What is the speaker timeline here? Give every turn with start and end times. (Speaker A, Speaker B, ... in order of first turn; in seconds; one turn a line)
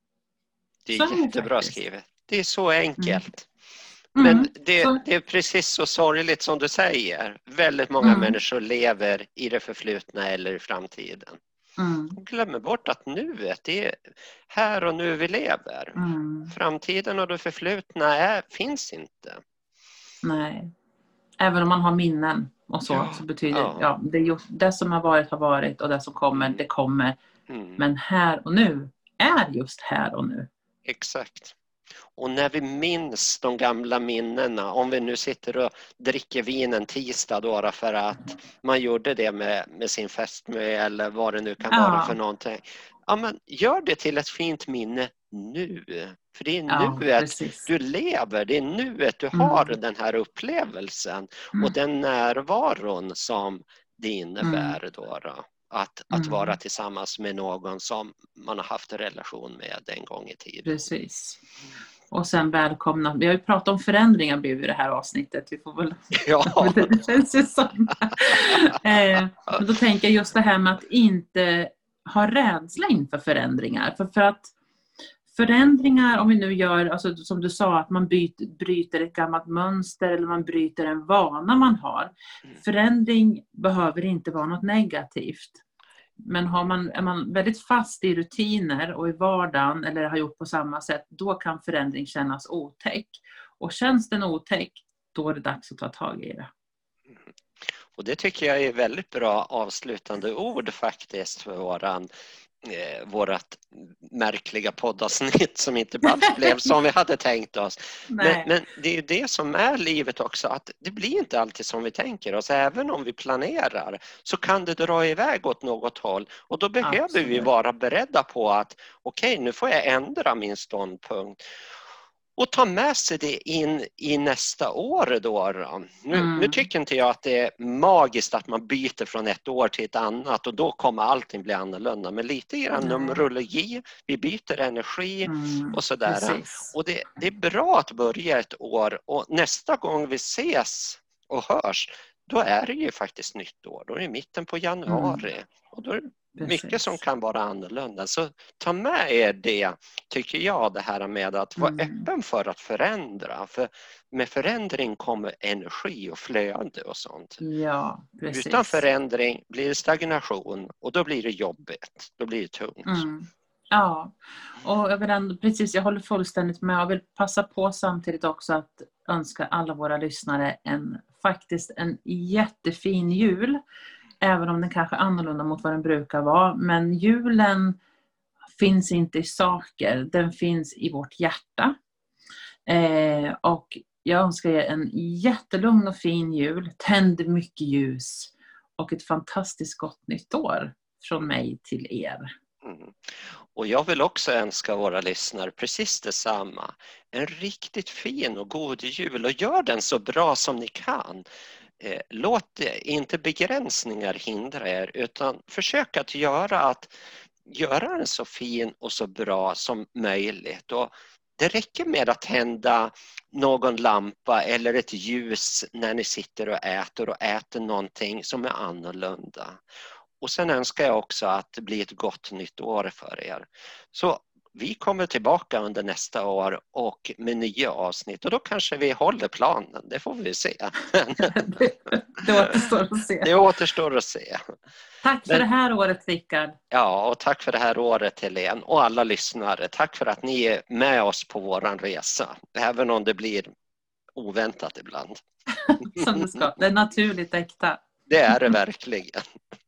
Speaker A: 0.9-3.5
Speaker B: 0.9-1.8
Speaker B: 4.2-5.0
Speaker A: 4.2-11.4
Speaker B: 8.0-8.4
Speaker B: 11.8-12.2
Speaker A: 12.2-19.4
Speaker B: 15.9-16.5
Speaker B: 20.2-20.7
Speaker B: 21.4-27.2
Speaker A: 22.9-23.9
Speaker A: 26.3-26.6
Speaker A: 27.5-27.8
Speaker B: 27.8-30.5
Speaker A: 30.9-31.6
Speaker A: 32.2-60.8
Speaker B: 41.7-42.2
Speaker B: 46.7-47.7
Speaker B: 49.3-49.8
Speaker B: 54.4-54.8
Speaker B: 56.1-56.5
Speaker B: 60.6-61.4
Speaker B: 62.1-74.5
Speaker A: 66.1-67.0
Speaker B: 75.3-85.6
Speaker B: 86.2-96.5
Speaker A: 97.9-102.1
Speaker A: 102.6-121.4
Speaker B: 106.1-106.7
Speaker B: 108.1-108.5
Speaker B: 116.8-117.5
Speaker A: 122.4-157.4
Speaker B: 126.1-126.7
Speaker B: 132.8-133.2
Speaker B: 135.3-136.7
Speaker B: 144.9-145.3
Speaker B: 146.4-147.0
Speaker B: 151.6-152.1
Speaker B: 157.4-158.8
Speaker A: 158.3-163.1
Speaker B: 162.8-173.6
Speaker B: 174.2-177.8
Speaker B: 178.6-181.8
Speaker B: 182.7-192.3
Speaker A: 192.6-201.2
Speaker A: 201.8-206.9
Speaker A: 207.5-219.6
Speaker A: 220.2-231.7
Speaker B: 231.2-233.3
Speaker A: 232.3-234.5
Speaker B: 235.0-236.6
Speaker A: 236.7-243.5
Speaker A: 244.2-245.2
Speaker B: 245.6-247.8
Speaker A: 245.8-246.5
Speaker A: 248.1-249.3